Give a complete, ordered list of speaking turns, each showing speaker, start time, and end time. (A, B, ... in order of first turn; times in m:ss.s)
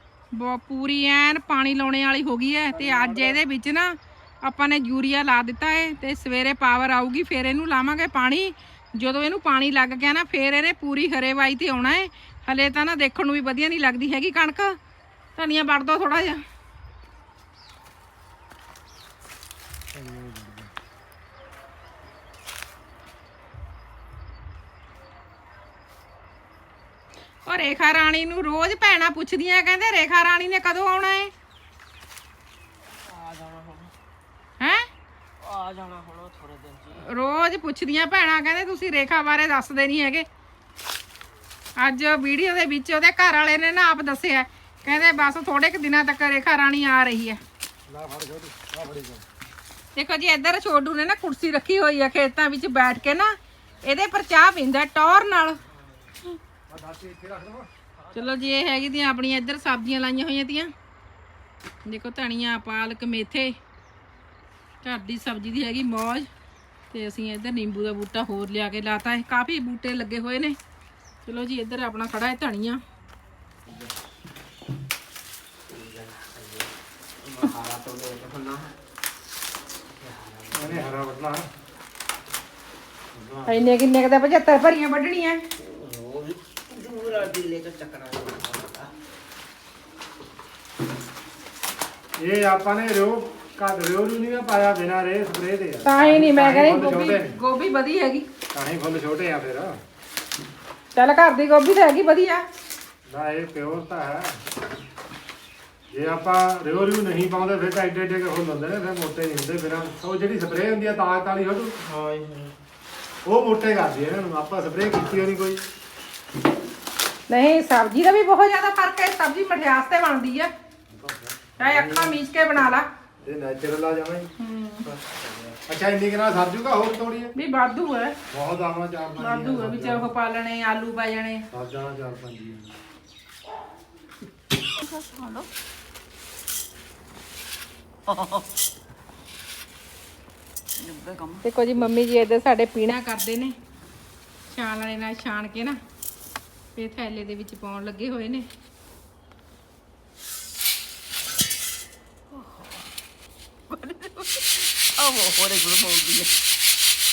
0:00.3-0:14.8 A
0:02.7-0:03.4 B
0:15.4-0:16.4 A
0:19.9-0:20.7 B
0:27.4-0:31.3 A
0:32.9-0:33.9 C
0:34.6-0:34.9 A
0:35.4-0:37.1 C
0:36.9-0:40.3 A
0:41.8-0:47.4 A
0:47.9-0:49.2 B
0:50.0-0:55.6 A
0:56.7-0:57.7 B
0:58.0-0:58.4 C
0:58.1-1:00.7 A
1:01.8-1:03.6 A
1:04.8-1:06.3 A
1:06.9-1:10.6 A
1:11.2-1:12.8 A
1:15.7-1:16.7 C
1:17.2-1:18.7 C
1:20.0-1:21.0 C
1:20.5-1:21.5 B
1:23.1-1:23.6 B
1:23.5-1:25.4 A
1:25.6-1:28.9 C
1:32.2-1:37.4 B
1:35.8-1:38.3 A
1:38.5-1:39.8 B
1:41.0-1:42.5 A
1:43.1-1:44.4 B
1:45.9-1:51.8 B
1:51.8-1:52.5 C
1:53.2-1:55.7 B
1:57.3-2:00.5 A
2:00.9-2:02.2 B
2:01.6-2:02.9 A
2:03.2-2:04.3 B
2:04.4-2:04.9 A
2:04.9-2:07.3 B
2:07.3-2:08.2 A
2:08.3-2:10.1 B
2:09.2-2:11.5 A
2:11.5-2:12.8 B
2:14.8-2:15.5 C
2:18.1-2:18.4 C
2:20.8-2:21.4 C
2:21.4-2:23.6 A
2:24.5-2:25.8 A
2:26.8-2:28.5 A
2:32.3-2:32.8 C
2:33.7-2:36.3 C